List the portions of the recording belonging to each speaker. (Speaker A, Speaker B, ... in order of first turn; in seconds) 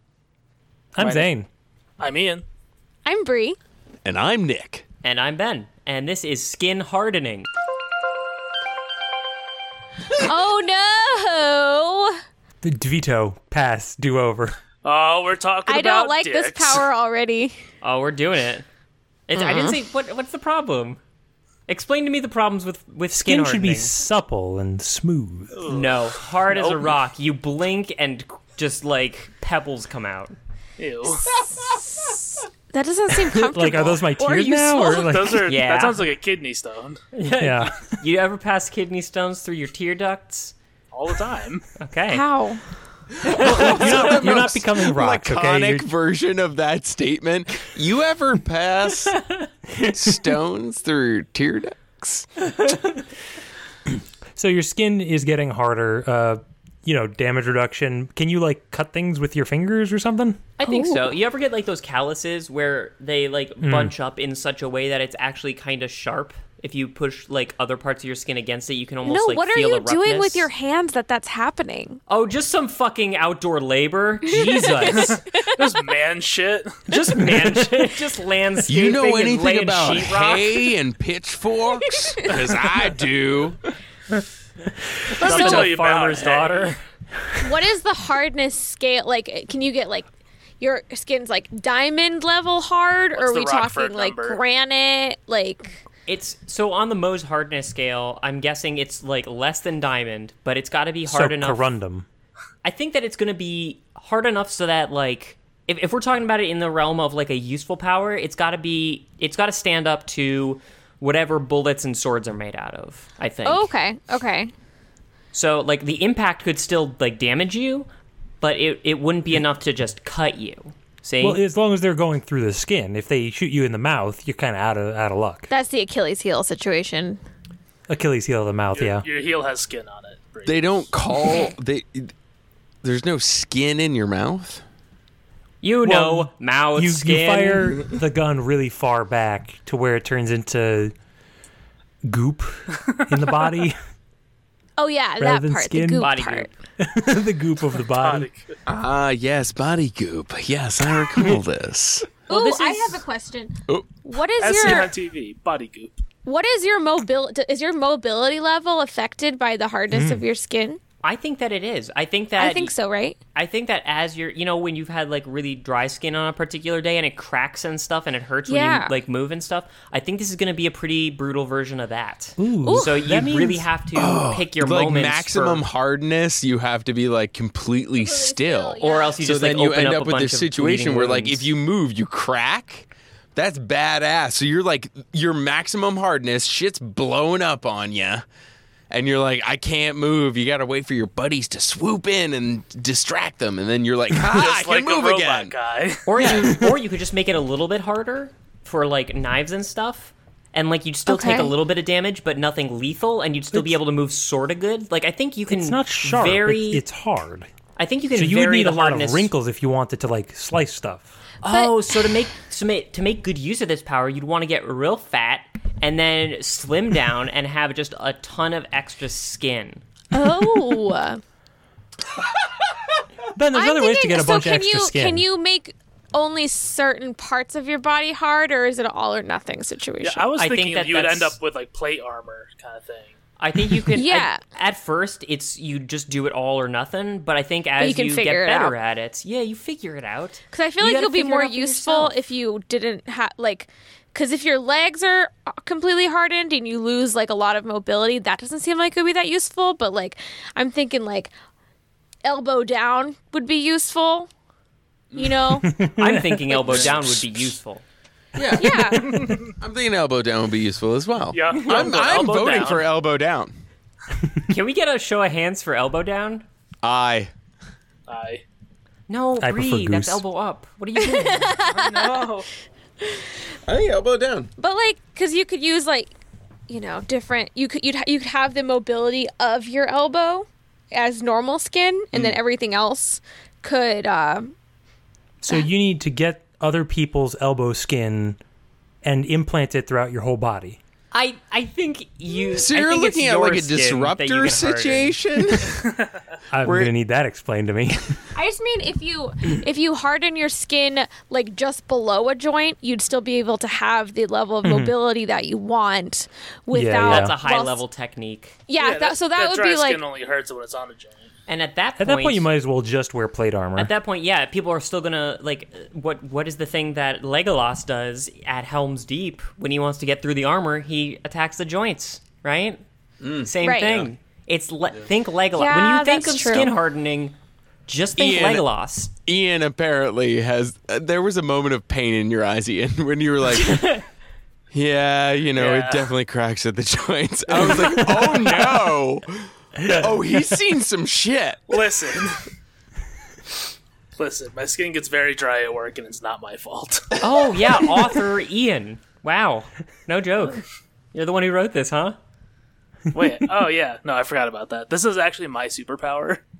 Speaker A: 0.9-1.5, 12.6-14.6, 23.1-25.6, 33.2-35.6, 37.4-37.9, 43.3-45.9, 54.3-60.4, 63.6-63.9, 101.0-102.0, 121.2-125.5, 127.9-129.0, 135.8-140.9, 142.0-143.8, 145.2-146.1, 146.8-148.2, 159.9-160.3, 172.4-173.7, 196.2-196.7, 205.5-207.5, 208.1-211.1, 223.3-225.3, 255.6-256.6, 269.4-270.2, 285.4-288.4, 289.0-290.8, 296.5-298.2, 304.6-304.9, 306.7-307.4, 312.0-313.9, 337.6-338.7, 339.8-340.2
Speaker B: 1.0-1.3, 2.0-2.4, 14.8-16.8, 25.5-26.9, 30.8-31.4, 35.0-37.0, 40.9-41.6, 74.8-76.8, 85.1-86.7, 93.1-94.4, 128.7-130.9, 147.9-148.5, 152.3-153.0, 154.4-155.9, 194.1-196.1, 230.0-233.2, 259.0-259.5, 261.3-262.9, 268.1-268.4, 271.6-272.5, 308.8-311.3, 335.6-336.1, 341.7-342.5, 344.2-347.2, 353.1-356.4
Speaker C: 3.0-3.6, 10.1-12.1, 15.7-17.6, 19.4-19.8, 31.4-35.2, 42.1-42.6, 60.6-61.0, 69.0-72.0, 74.3-75.6, 81.9-82.3, 85.2-85.7, 87.4-90.1, 90.6-95.8, 113.4-114.5, 125.5-127.2, 144.8-146.5, 152.3-154.9, 156.2-160.8, 162.4-163.2, 168.5-168.9, 172.7-172.9, 178.0-179.2, 201.1-201.5, 211.5-211.8, 220.1-221.2, 223.5-230.2, 233.9-234.4, 237.8-238.8, 240.5-251.3, 252.2-254.3, 255.1-255.7, 258.6-259.1, 271.0-272.3, 274.6-276.1, 276.7-284.5, 298.4-307.8, 308.7-310.0, 323.6-324.0, 325.5-326.8
Speaker D: 4.0-4.8, 43.2-49.2, 49.8-52.2, 78.7-83.6, 130.5-132.1, 132.8-134.6, 148.7-152.2, 173.9-188.2, 188.9-195.5, 255.1-255.6, 256.7-257.5, 258.4-263.6, 266.8-267.3, 273.7-274.5, 292.5-295.8, 296.6-296.9, 323.2-324.1, 328.2-328.7, 329.3-334.0, 334.7-341.8
Speaker E: 5.0-7.5, 17.8-18.6, 19.3-21.0, 21.7-23.9, 25.7-30.4, 35.4-36.0, 37.1-40.5, 41.8-42.2, 60.6-70.5, 72.1-75.2, 76.9-80.6, 85.2-86.8, 96.1-101.8, 102.6-113.7, 115.3-117.9, 118.4-121.4, 135.6-137.8, 146.0-146.6, 161.0-162.7, 163.3-175.7, 178.8-181.5, 196.1-206.8, 207.8-209.3, 211.4-219.8, 230.4-231.4, 233.4-242.2, 256.0-257.8, 264.5-266.5, 269.1-271.6, 291.1-295.2, 307.0-308.6, 311.5-312.5, 313.8-322.8, 323.4-327.4, 327.9-329.1, 333.6-334.0, 347.2-350.6, 351.1-352.2